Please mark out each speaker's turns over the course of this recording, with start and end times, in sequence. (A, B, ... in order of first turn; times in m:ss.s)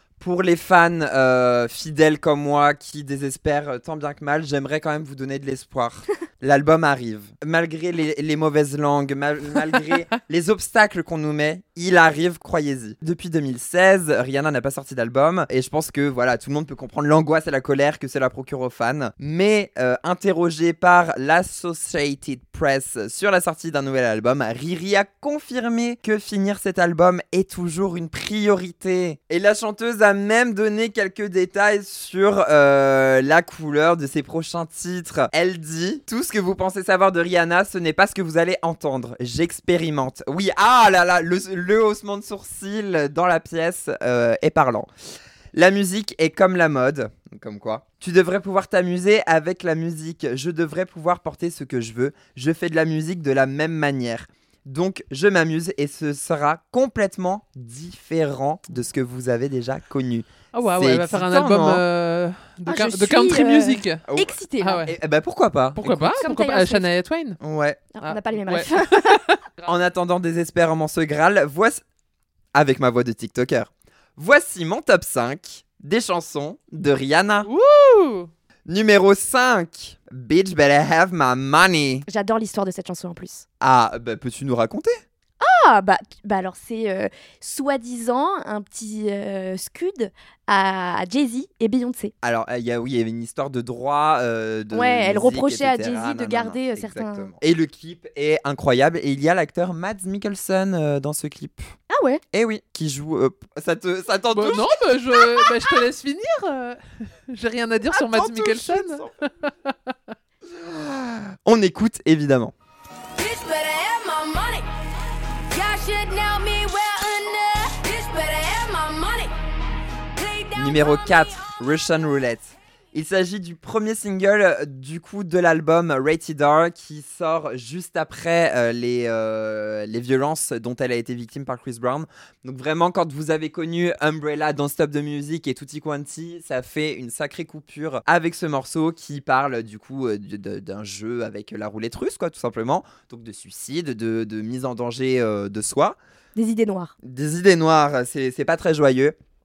0:00.2-0:44.9 A
0:45.5-1:01.8 A
1:00.5-1:04.0 B
1:02.7-1:04.9 C
1:04.1-1:06.2 A
1:04.6-1:04.9 B
1:05.8-1:07.4 B
1:06.2-1:06.9 C
1:07.4-1:07.9 A
1:07.9-1:09.2 C
1:08.0-1:09.7 B
1:09.7-1:11.8 A
1:12.5-1:17.5 A
1:17.4-1:18.3 B
1:18.7-1:22.1 A
1:22.1-1:23.5 C
1:23.6-1:25.0 A
1:25.4-1:32.1 C
1:32.2-1:41.7 A
1:34.7-1:37.3 C
1:41.9-1:42.2 C
1:42.3-1:44.8 A
1:44.3-1:49.9 B
1:47.9-1:49.1 A
1:50.5-1:52.5 A
1:53.2-1:54.7 D
1:55.5-1:59.3 D
2:00.2-2:01.5 D
2:00.6-2:26.0 A
2:26.4-2:26.9 C
2:27.0-2:29.2 A